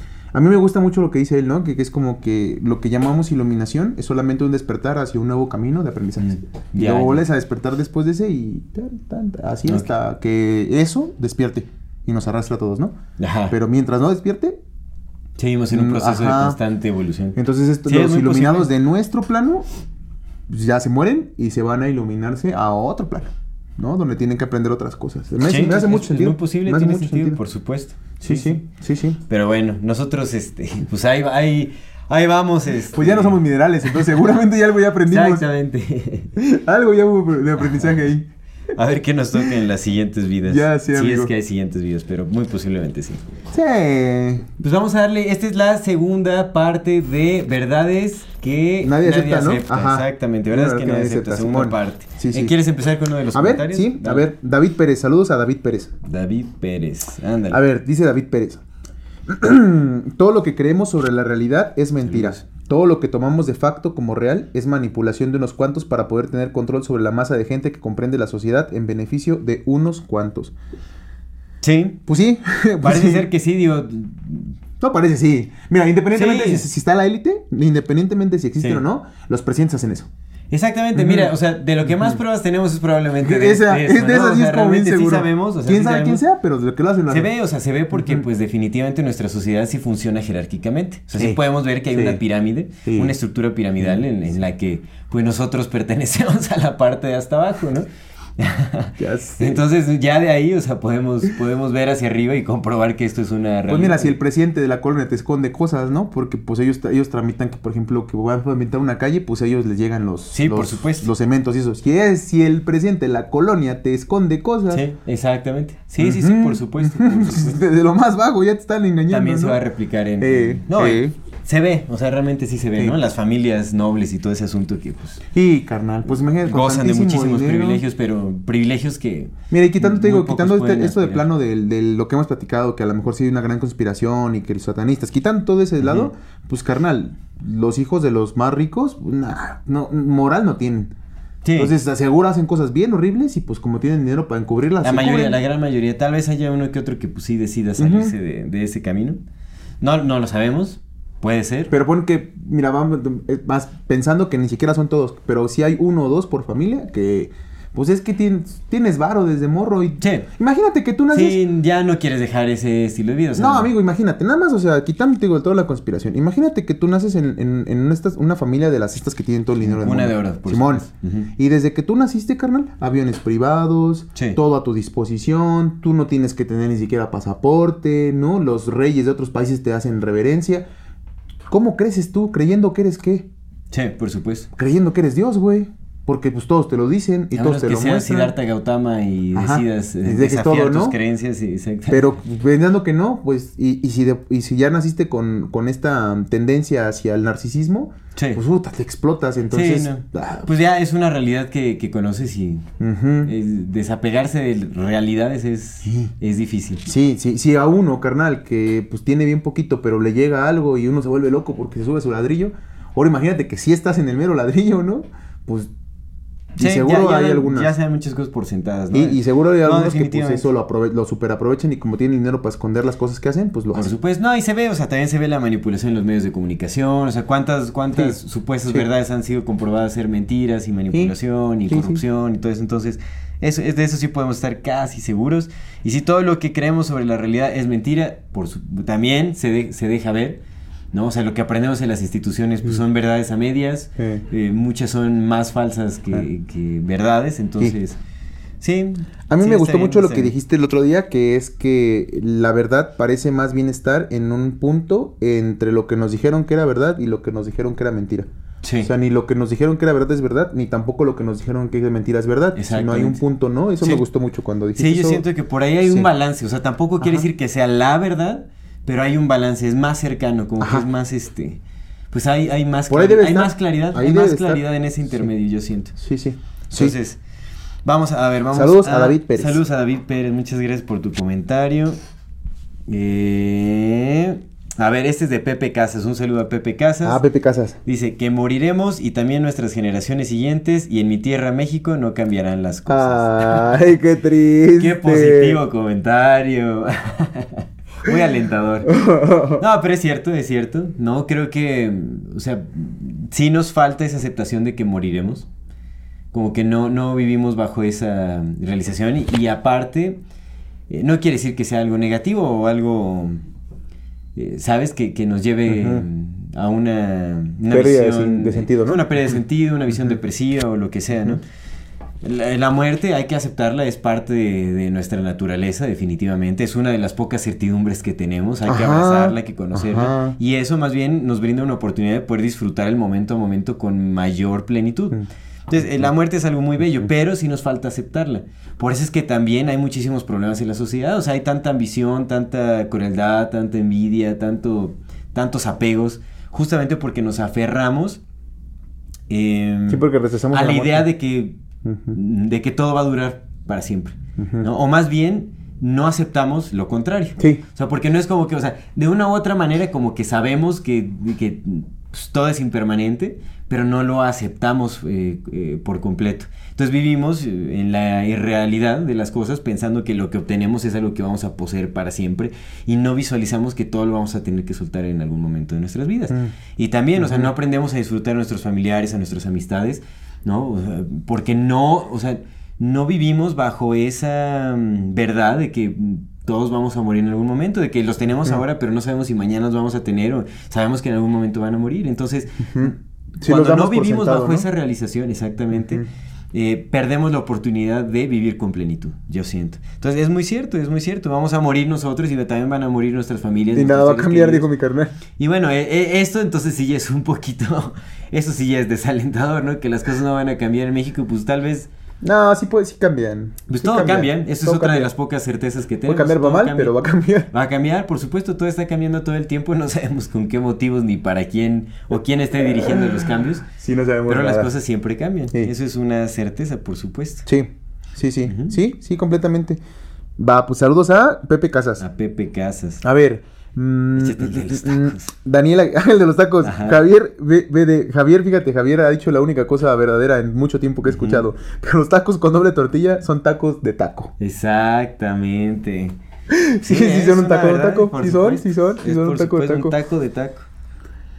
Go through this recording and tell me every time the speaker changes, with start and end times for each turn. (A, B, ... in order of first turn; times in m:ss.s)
0:00.3-0:13.0 A
0:06.2-0:07.2 B
0:13.2-0:13.6 B
0:13.5-0:14.6 A
0:15.4-0:18.7 B
0:15.7-0:16.6 A
0:17.4-0:19.7 A
0:20.5-0:27.4 A
0:25.4-0:28.6 B
0:28.2-0:29.2 A
0:29.3-0:33.4 B
0:32.9-0:35.4 A
0:35.1-0:36.3 B
0:36.4-0:38.3 A
0:38.7-0:43.2 B
0:40.4-0:41.3 A
0:43.5-0:44.5 A
0:44.6-0:54.3 B
0:48.8-0:52.6 A
0:53.3-0:55.9 A
0:56.0-0:57.6 B
0:57.5-0:58.6 A
0:59.3-1:10.6 A
1:02.0-1:02.4 B
1:11.6-1:12.0 B
1:12.1-1:13.3 A
1:12.8-1:14.6 B
1:14.8-1:20.1 A
1:16.1-1:16.7 B
1:20.5-1:26.2 B
1:20.9-1:21.3 A
1:21.9-1:22.2 A
1:23.2-1:27.3 A
1:27.1-1:44.1 B
1:27.9-1:28.2 A
1:31.2-1:32.2 A
1:32.8-1:33.2 A
1:39.0-1:39.6 A
1:43.7-1:54.8 A
1:50.3-1:51.1 B
1:54.7-1:57.6 B
1:56.0-1:59.6 A
1:59.1-2:05.2 B
2:00.2-2:01.2 A
2:05.3-2:07.8 A
2:06.4-2:11.3 B
2:09.5-2:20.9 A
2:15.8-2:16.1 B
2:21.4-2:21.8 B
2:21.6-2:25.4 A
2:24.8-2:29.2 B
2:27.8-2:28.2 A
2:29.8-2:31.7 B
2:31.7-2:41.4 A
2:40.0-2:40.3 B
2:41.1-2:43.7 B
2:43.4-3:00.7 A
2:49.6-2:51.3 B
3:01.5-3:03.3 A
3:03.7-3:04.5 B
3:04.6-3:08.4 A
3:07.3-3:12.2 B
3:09.4-3:11.0 A
3:11.9-3:20.5 A
3:18.2-3:18.4 B
3:19.5-3:22.7 B
3:22.8-3:23.3 A
3:23.2-3:26.9 B
3:25.8-3:26.1 A
3:26.9-3:35.7 A
3:36.6-3:37.7 A
3:36.6-3:40.5 B
3:38.9-3:43.9 A
3:43.7-4:00.4 B
3:48.0-3:48.9 A
3:50.9-3:52.0 A
4:00.9-4:08.0 B
4:04.0-4:04.2 A
4:08.6-4:10.3 B
4:09.3-4:18.3 A
4:18.6-4:18.9 B
4:18.8-4:25.2 A
4:22.6-4:23.2 B
4:24.8-4:31.6 B
4:25.8-4:26.1 A
4:30.6-4:30.9 A
4:32.1-4:36.0 B
4:32.9-4:35.3 A
4:36.0-4:37.0 A
4:36.7-4:37.2 B
4:37.8-4:42.0 B
4:38.5-4:39.6 A
4:42.9-4:47.2 B
4:47.0-4:47.8 A
4:47.8-4:53.9 B
4:52.9-4:55.6 A
4:54.8-4:59.0 B
4:58.9-4:59.6 A
4:59.6-5:05.5 B
5:06.3-5:10.2 B
5:10.9-5:13.4 B
5:14.4-5:21.4 B
5:15.7-5:16.1 A
5:17.7-5:19.0 A
5:22.2-5:48.2 B
5:28.7-5:30.4 A
5:49.3-5:51.6 B
5:49.9-5:51.1 A
5:51.8-5:52.2 A
5:52.1-6:32.9 B
5:54.4-5:54.7 A
6:16.3-6:16.6 A
6:17.2-6:17.5 A
6:32.6-6:34.7 A
6:33.5-6:44.7 B
6:35.7-6:36.1 A
6:43.7-6:45.2 A
6:45.4-6:51.9 B
6:52.2-6:55.1 A
6:53.7-6:57.0 B
6:56.0-6:57.5 A
6:57.5-7:03.7 B
7:02.9-7:04.7 A
7:04.3-7:07.5 B
7:07.5-7:09.8 A
7:08.5-7:08.8 B
7:10.4-7:12.0 A
7:12.0-7:13.0 B
7:13.0-7:24.3 A
7:14.2-7:15.3 B
7:16.6-7:17.0 B
7:21.1-7:21.5 B
7:24.4-7:26.2 B
7:26.5-7:30.0 A
7:26.8-7:30.7 B